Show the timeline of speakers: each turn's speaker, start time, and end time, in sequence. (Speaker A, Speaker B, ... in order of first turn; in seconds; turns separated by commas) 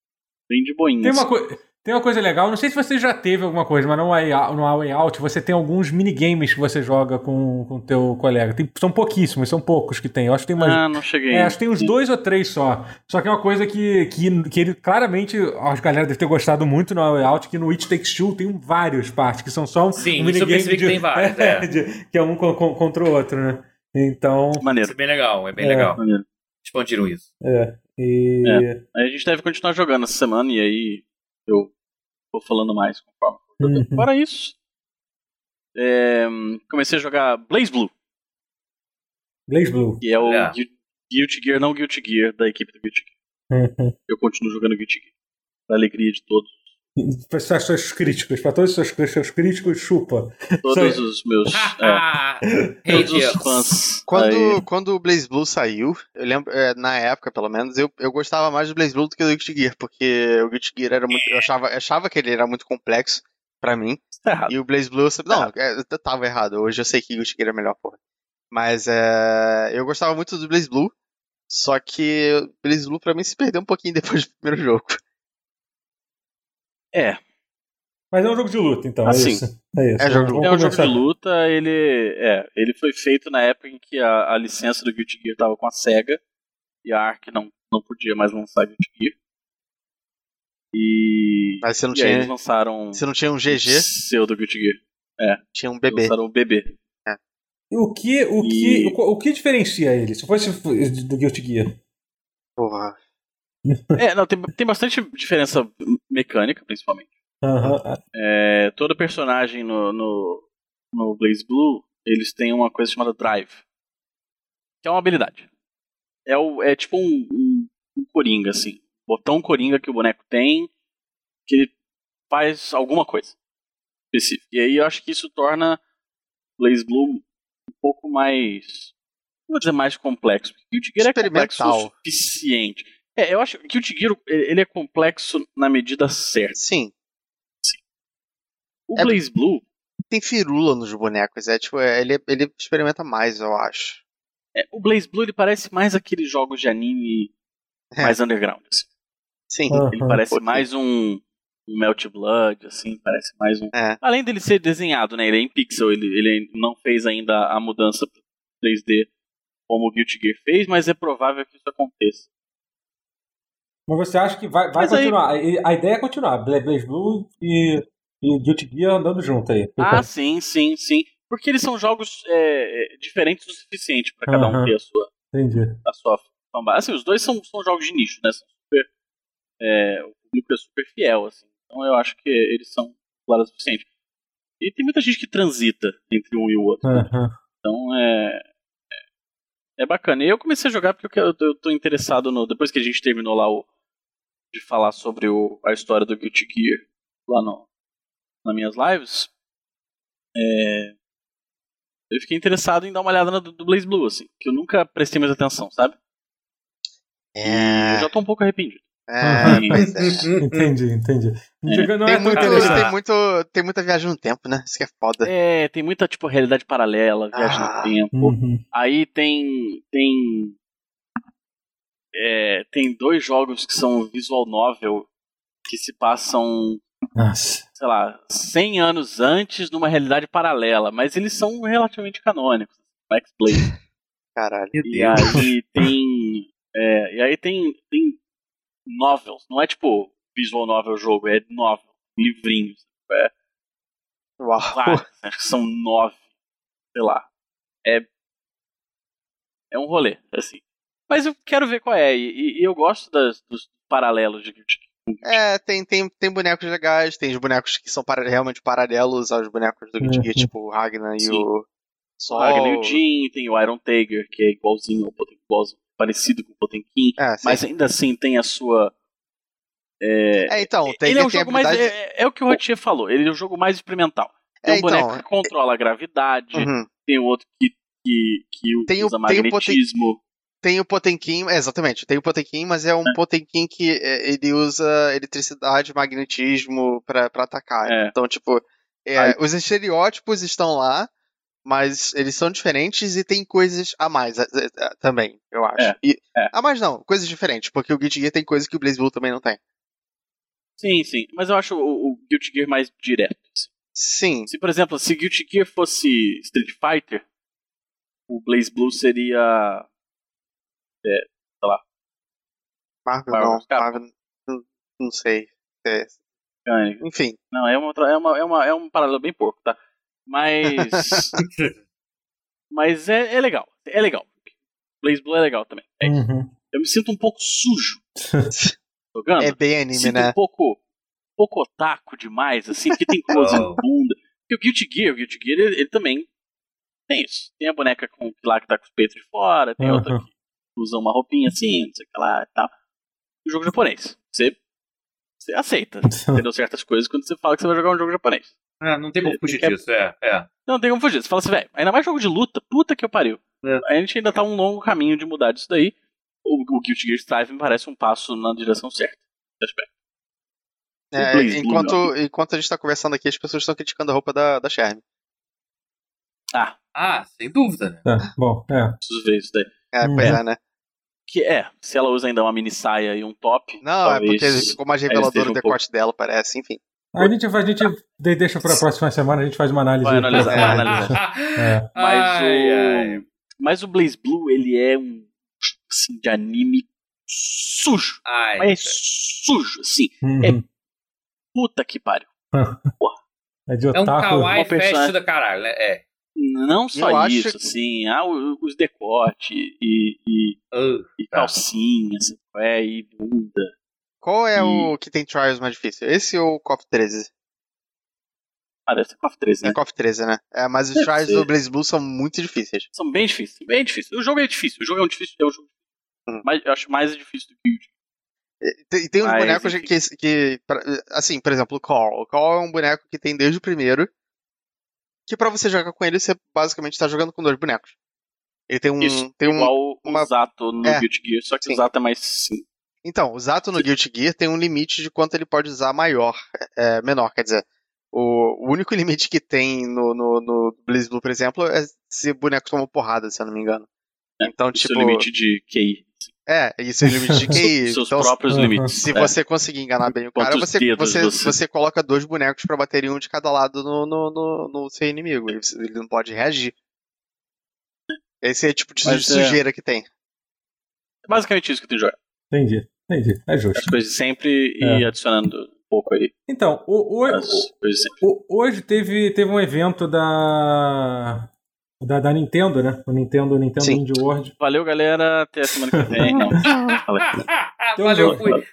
Speaker A: 0.5-1.3, Speaker B: 1.0-24.7, Speaker A: 10.6-11.9, Speaker C: 20.0-21.7, Speaker A: 24.6-24.9, Speaker C: 24.8-26.0, Speaker B: 25.6-25.9, Speaker A: 26.0-26.2, Speaker C: 26.6-27.2, Speaker B: 27.4-28.8, Speaker A: 28.4-31.7, Speaker A: 32.3-34.5, Speaker B: 33.6-34.1, Speaker A: 35.8-37.9, Speaker B: 39.5-40.0, Speaker A: 40.0-43.1, Speaker C: 40.2-40.5, Speaker B: 43.5-44.0, Speaker A: 44.1-45.1, Speaker A: 45.7-46.6, Speaker B: 47.0-51.0, Speaker A: 50.6-52.0, Speaker C: 51.5-53.6, Speaker B: 52.5-53.1, Speaker A: 52.9-54.6, Speaker D: 54.1-68.0, Speaker A: 64.2-64.6, Speaker D: 68.5-70.9, Speaker D: 71.5-75.0, Speaker A: 76.9-77.2, Speaker B: 78.1-81.0, Speaker A: 79.0-79.4, Speaker D: 80.0-80.5, Speaker A: 80.3-86.2, Speaker A: 86.8-89.2, Speaker A: 90.7-96.8, Speaker D: 91.6-92.3, Speaker D: 93.0-93.8, Speaker D: 95.5-96.1, Speaker B: 97.7-101.8, Speaker A: 98.4-99.0, Speaker D: 102.6-103.0, Speaker B: 103.7-104.0, Speaker A: 104.0-107.1, Speaker B: 107.4-108.0, Speaker A: 108.1-113.6, Speaker A: 114.8-115.5, Speaker A: 116.3-120.7, Speaker A: 121.5-121.7, Speaker A: 122.3-123.3, Speaker A: 124.1-125.8, Speaker A: 126.6-127.2, Speaker A: 127.8-128.9, Speaker A: 129.5-136.6, Speaker D: 131.0-131.9, Speaker D: 136.6-136.9, Speaker A: 138.9-139.6, Speaker D: 140.1-144.0, Speaker A: 144.6-147.3, Speaker A: 148.0-148.9, Speaker D: 149.5-150.7, Speaker B: 149.7-150.2, Speaker A: 149.8-159.1, Speaker D: 153.7-154.0, Speaker A: 159.7-162.3, Speaker B: 163.9-170.1, Speaker A: 164.8-165.2, Speaker A: 169.8-175.1, Speaker B: 174.3-174.7, Speaker B: 175.3-175.8, Speaker A: 175.8-178.9, Speaker A: 179.6-183.9, Speaker A: 184.6-187.1, Speaker B: 186.8-187.3, Speaker A: 187.6-188.4, Speaker A: 189.8-193.7, Speaker A: 194.5-197.7, Speaker A: 198.4-199.3, Speaker A: 200.4-200.9, Speaker A: 202.1-206.0, Speaker D: 207.4-208.1, Speaker A: 207.4-208.8, Speaker D: 209.1-210.3, Speaker B: 209.2-209.8, Speaker A: 209.4-209.8, Speaker C: 209.7-210.7, Speaker B: 210.4-212.9, Speaker D: 212.1-215.3, Speaker C: 212.3-212.8, Speaker A: 215.2-220.6, Speaker D: 217.3-217.9, Speaker B: 218.1-218.6, Speaker A: 222.1-225.1, Speaker A: 225.7-226.8, Speaker B: 227.2-227.7, Speaker A: 227.8-233.7, Speaker D: 234.4-234.8, Speaker C: 234.7-235.4, Speaker A: 234.9-238.2, Speaker A: 238.9-243.3, Speaker D: 244.4-245.0, Speaker A: 244.7-246.2, Speaker A: 246.9-247.3, Speaker A: 249.7-255.4, Speaker D: 255.2-261.6, Speaker B: 260.0-260.5, Speaker A: 261.2-261.4, Speaker D: 262.2-263.0, Speaker A: 262.3-268.9, Speaker D: 267.2-267.6, Speaker A: 270.0-280.2, Speaker D: 270.5-271.9, Speaker D: 274.6-275.5, Speaker D: 276.6-276.9, Speaker D: 278.9-279.8, Speaker D: 280.6-291.1, Speaker A: 287.9-288.1, Speaker D: 291.6-299.6, Speaker A: 295.8-296.5, Speaker A: 300.8-303.7, Speaker D: 304.0-304.5, Speaker A: 304.5-307.2, Speaker A: 308.3-309.9, Speaker A: 311.0-311.8, Speaker D: 313.1-316.1, Speaker A: 313.3-314.0, Speaker A: 316.7-321.3, Speaker D: 317.0-317.4, Speaker C: 321.4-321.7, Speaker A: 322.7-324.5, Speaker A: 325.0-326.2, Speaker B: 326.0-326.5, Speaker A: 326.7-328.0, Speaker B: 328.2-328.5, Speaker A: 329.1-330.8, Speaker D: 329.4-330.3, Speaker A: 331.4-336.3, Speaker C: 333.3-333.8, Speaker A: 337.1-342.7, Speaker B: 339.8-340.2, Speaker A: 343.4-344.6, Speaker A: 345.4-348.5, Speaker B: 346.1-346.4, Speaker C: 348.8-350.5, Speaker A: 349.2-349.8, Speaker A: 350.7-359.9, Speaker D: 361.1-365.0, Speaker A: 361.2-362.1, Speaker C: 366.9-368.0, Speaker B: 368.1-369.0, Speaker A: 369.0-370.4, Speaker D: 369.9-370.6, Speaker B: 370.0-370.4, Speaker A: 371.3-375.8, Speaker D: 373.8-376.8, Speaker B: 377.1-381.9, Speaker A: 380.0-381.2, Speaker D: 380.4-380.8, Speaker C: 380.5-383.2, Speaker A: 382.0-390.6, Speaker C: 388.2-389.0, Speaker B: 390.2-390.6, Speaker A: 391.6-392.3, Speaker B: 392.5-392.9, Speaker B: 393.7-394.5, Speaker C: 393.9-396.0, Speaker A: 394.6-395.1, Speaker A: 396.4-400.6, Speaker D: 396.9-397.5, Speaker C: 400.7-401.5, Speaker A: 401.2-403.7, Speaker D: 404.2-407.3, Speaker A: 404.6-404.9, Speaker A: 408.9-409.8, Speaker D: 409.6-412.9, Speaker A: 411.0-411.5, Speaker A: 412.9-415.7, Speaker A: 416.4-417.9, Speaker D: 418.6-424.1, Speaker A: 419.2-419.9, Speaker D: 425.3-427.9, Speaker D: 428.7-430.3, Speaker A: 429.0-432.6, Speaker D: 433.1-443.9, Speaker A: 444.4-446.3, Speaker D: 444.4-445.3, Speaker D: 446.5-448.4, Speaker B: 447.1-447.6, Speaker A: 447.5-449.4, Speaker B: 448.5-448.9, Speaker D: 448.9-456.8, Speaker A: 450.1-451.6, Speaker D: 458.4-460.1, Speaker A: 459.0-459.6, Speaker A: 461.3-462.2, Speaker B: 462.5-463.9, Speaker A: 463.8-466.3, Speaker B: 466.5-467.7, Speaker A: 467.3-468.2, Speaker B: 468.2-471.5, Speaker B: 472.0-474.5, Speaker A: 474.6-477.4, Speaker B: 476.1-476.6, Speaker C: 476.6-478.6, Speaker B: 478.0-478.5, Speaker A: 478.2-478.6